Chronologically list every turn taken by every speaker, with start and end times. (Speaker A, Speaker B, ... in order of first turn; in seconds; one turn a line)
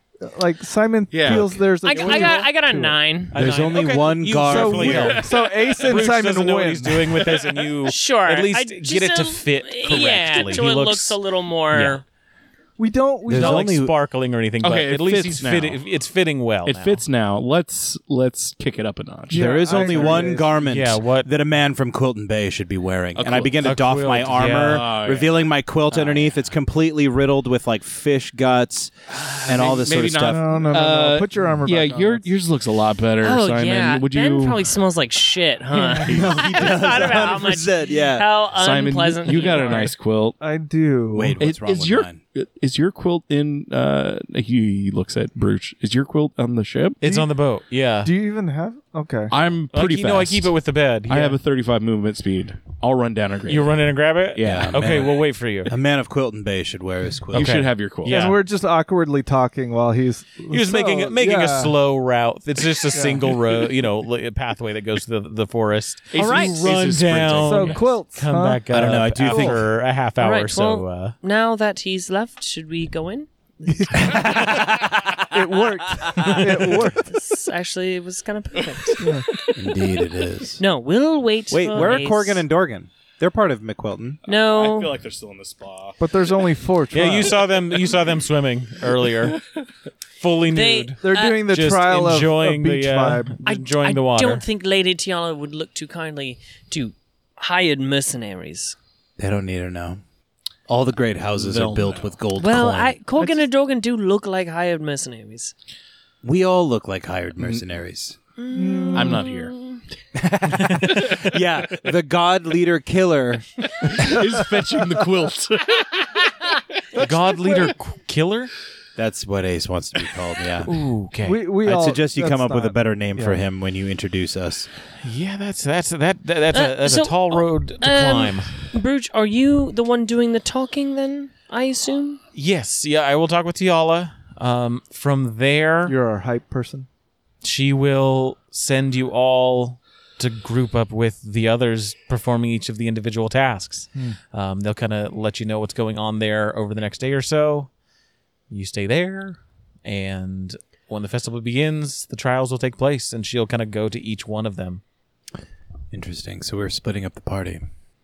Speaker A: 0.2-3.0
Speaker B: 1.1-1.6
Speaker C: 1.8-3.4
Speaker D: 3.3-5.2
Speaker E: 3.3-11.2
Speaker A: 4.4-7.2
Speaker B: 4.9-6.0
Speaker C: 7.8-12.0
Speaker E: 11.7-12.0
Speaker A: 12.8-13.7
Speaker D: 13.3-13.9
Speaker E: 13.3-17.0
Speaker B: 14.6-15.8
Speaker B: 16.6-20.2
Speaker A: 19.3-20.5
Speaker D: 19.3-28.9
Speaker E: 20.5-21.3
Speaker B: 23.1-23.7
Speaker E: 23.6-24.9
Speaker B: 24.5-26.3
Speaker B: 29.1-34.8
Speaker D: 29.4-30.5
Speaker A: 30.2-32.3
Speaker C: 33.2-40.0
Speaker B: 35.9-36.4
Speaker D: 36.0-38.3
Speaker B: 38.5-40.4
Speaker A: 40.4-41.4
Speaker D: 41.1-42.2
Speaker B: 41.4-47.0
Speaker E: 47.0-48.1
Speaker A: 47.0-47.3
Speaker A: 48.0-49.3
Speaker B: 49.3-50.5
Speaker E: 49.7-51.4
Speaker B: 51.1-55.0
Speaker E: 53.5-55.7
Speaker D: 54.4-57.6
Speaker B: 57.3-58.3
Speaker E: 57.3-58.4
Speaker A: 58.1-61.8
Speaker E: 60.5-71.2
Speaker A: 62.9-63.4
Speaker B: 66.1-67.8
Speaker C: 66.2-66.6
Speaker A: 67.4-69.6
Speaker D: 68.7-69.6
Speaker C: 70.2-74.3
Speaker A: 73.7-74.7
Speaker D: 74.0-75.4
Speaker A: 75.3-77.2
Speaker C: 76.8-79.2
Speaker A: 79.0-79.3
Speaker D: 79.5-80.6
Speaker C: 80.6-82.4
Speaker D: 81.5-84.2
Speaker C: 84.3-84.9
Speaker B: 84.3-86.4
Speaker A: 86.0-87.4
Speaker E: 86.9-89.4
Speaker E: 90.2-94.5
Speaker C: 90.5-91.5
Speaker A: 91.0-93.4
Speaker C: 93.4-98.8
Speaker D: 99.2-100.0
Speaker D: 100.7-103.0
Speaker B: 101.3-102.2
Speaker C: 102.4-105.5
Speaker D: 106.2-108.2
Speaker C: 108.4-109.8
Speaker A: 108.5-109.3
Speaker B: 108.9-109.6
Speaker D: 110.2-114.2
Speaker B: 110.7-111.2
Speaker B: 113.8-116.2
Speaker E: 116.9-118.5
Speaker A: 117.0-117.7
Speaker D: 119.0-120.7
Speaker E: 120.6-121.5
Speaker A: 121.2-123.4
Speaker D: 121.6-124.7
Speaker E: 125.0-128.5
Speaker C: 126.5-132.2
Speaker E: 132.3-135.9
Speaker A: 135.9-136.9
Speaker E: 137.4-147.7
Speaker E: 148.5-154.8
Speaker D: 155.9-157.7